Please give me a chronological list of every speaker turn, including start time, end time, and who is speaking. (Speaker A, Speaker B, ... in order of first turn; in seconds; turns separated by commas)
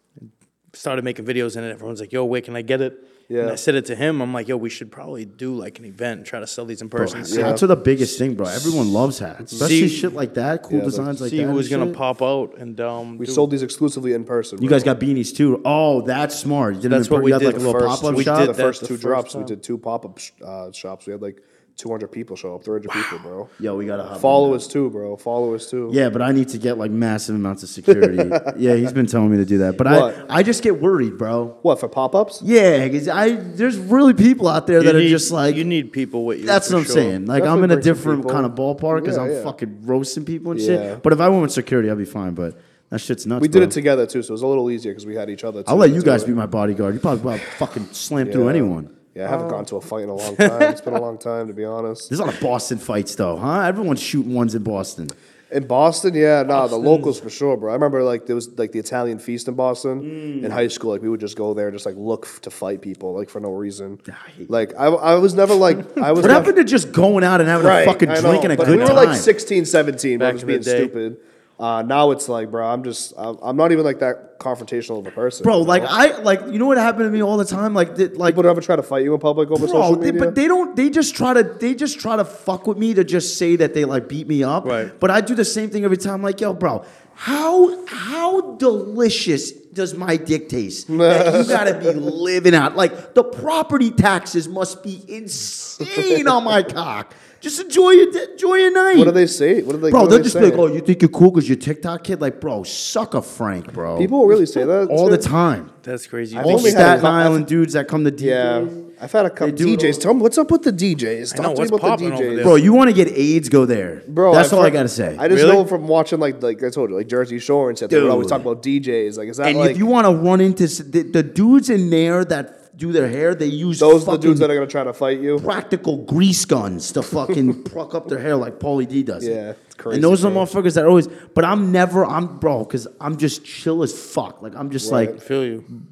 Speaker A: 0.7-8.1, Speaker B: 3.3-3.6, Speaker C: 7.0-12.0, Speaker B: 7.3-7.6, Speaker B: 9.4-9.7, Speaker A: 9.6-10.1, Speaker B: 10.7-11.1, Speaker A: 11.2-13.5, Speaker B: 13.2-14.9, Speaker C: 14.6-18.5, Speaker A: 16.9-19.5, Speaker B: 17.5-23.5, Speaker C: 23.6-24.6, Speaker B: 24.1-26.0, Speaker C: 25.9-31.6, Speaker B: 27.9-28.5, Speaker B: 29.9-30.2, Speaker B: 31.6-32.4, Speaker C: 32.4-35.6, Speaker A: 34.8-37.2, Speaker C: 36.4-43.8, Speaker B: 37.4-39.5, Speaker B: 40.5-41.0, Speaker B: 43.4-46.3, Speaker C: 45.7-48.9, Speaker B: 48.2-52.1, Speaker A: 49.3-49.6, Speaker A: 50.2-50.9, Speaker C: 52.1-55.1, Speaker B: 55.5-66.5, Speaker A: 56.5-57.2, Speaker C: 60.0-60.6, Speaker C: 64.1-64.5, Speaker C: 66.2-69.3, Speaker B: 67.6-75.9, Speaker A: 68.6-69.2, Speaker A: 70.2-70.9, Speaker C: 75.4-78.4, Speaker B: 78.2-80.3, Speaker C: 79.5-99.2, Speaker A: 84.6-84.9, Speaker B: 90.9-92.0, Speaker B: 95.9-96.2, Speaker B: 98.9-100.6, Speaker C: 99.9-104.2, Speaker B: 104.0-105.3, Speaker C: 104.9-105.7, Speaker A: 105.8-107.1, Speaker B: 106.3-107.5, Speaker C: 106.4-108.8, Speaker B: 108.2-112.6, Speaker C: 109.4-110.0, Speaker A: 111.3-112.6, Speaker C: 112.4-115.2, Speaker B: 114.1-119.8, Speaker A: 115.3-115.6, Speaker C: 117.9-118.5, Speaker C: 119.4-124.5, Speaker B: 123.8-125.4, Speaker C: 125.4-129.4, Speaker B: 129.2-130.5, Speaker C: 129.9-135.2, Speaker B: 134.8-135.2, Speaker A: 135.2-135.7